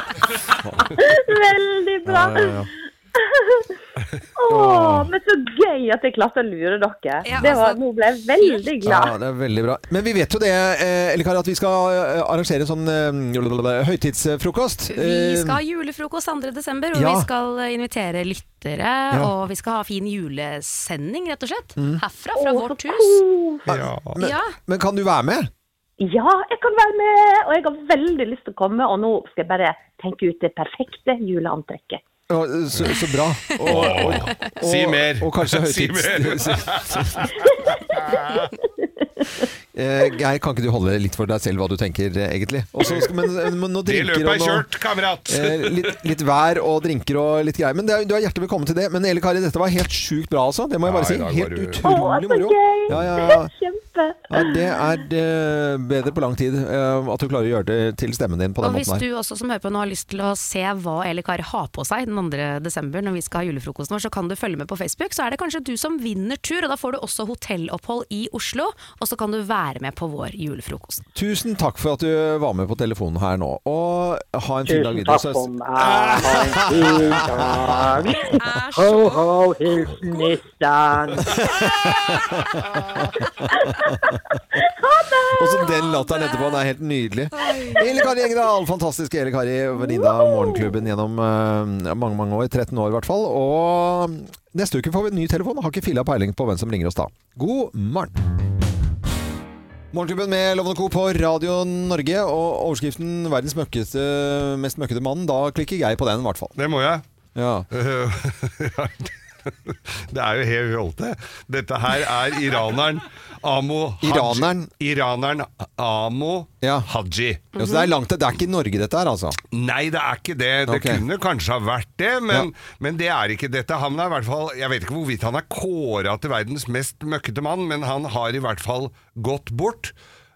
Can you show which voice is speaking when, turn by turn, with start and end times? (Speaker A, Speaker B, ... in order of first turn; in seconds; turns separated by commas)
Speaker A: 0.6-0.9, Speaker B: 0.9-3.6, Speaker A: 2.0-2.7, Speaker B: 4.4-9.1, Speaker A: 4.5-5.1, Speaker C: 7.2-7.8, Speaker C: 8.4-8.7, Speaker A: 8.8-15.6, Speaker C: 14.9-23.2, Speaker A: 16.9-17.3, Speaker B: 22.4-23.7, Speaker A: 23.7-25.5, Speaker D: 23.7-24.1, Speaker C: 24.2-24.5, Speaker B: 26.0-32.0, Speaker A: 32.3-37.3, Speaker D: 33.6-37.3, Speaker D: 37.9-38.5, Speaker A: 39.7-44.7, Speaker D: 42.8-43.1, Speaker D: 43.8-46.0, Speaker A: 45.3-53.5, Speaker D: 50.8-51.8, Speaker B: 51.8-54.8, Speaker A: 54.3-59.0, Speaker C: 58.6-71.0, Speaker A: 71.1-78.1, Speaker E: 74.7-81.3, Speaker C: 78.2-79.2, Speaker A: 81.3-82.8, Speaker A: 83.4-84.0, Speaker B: 84.8-85.8, Speaker A: 85.3-98.2, Speaker C: 87.3-88.1, Speaker B: 89.8-90.8, Speaker A: 99.9-106.5, Speaker D: 106.5-107.0, Speaker A: 107.3-107.7, Speaker D: 107.7-117.5, Speaker A: 114.0-114.7, Speaker A: 116.6-116.9, Speaker C: 117.5-117.9, Speaker A: 117.5-119.4, Speaker D: 119.5-129.9, Speaker A: 120.7-121.0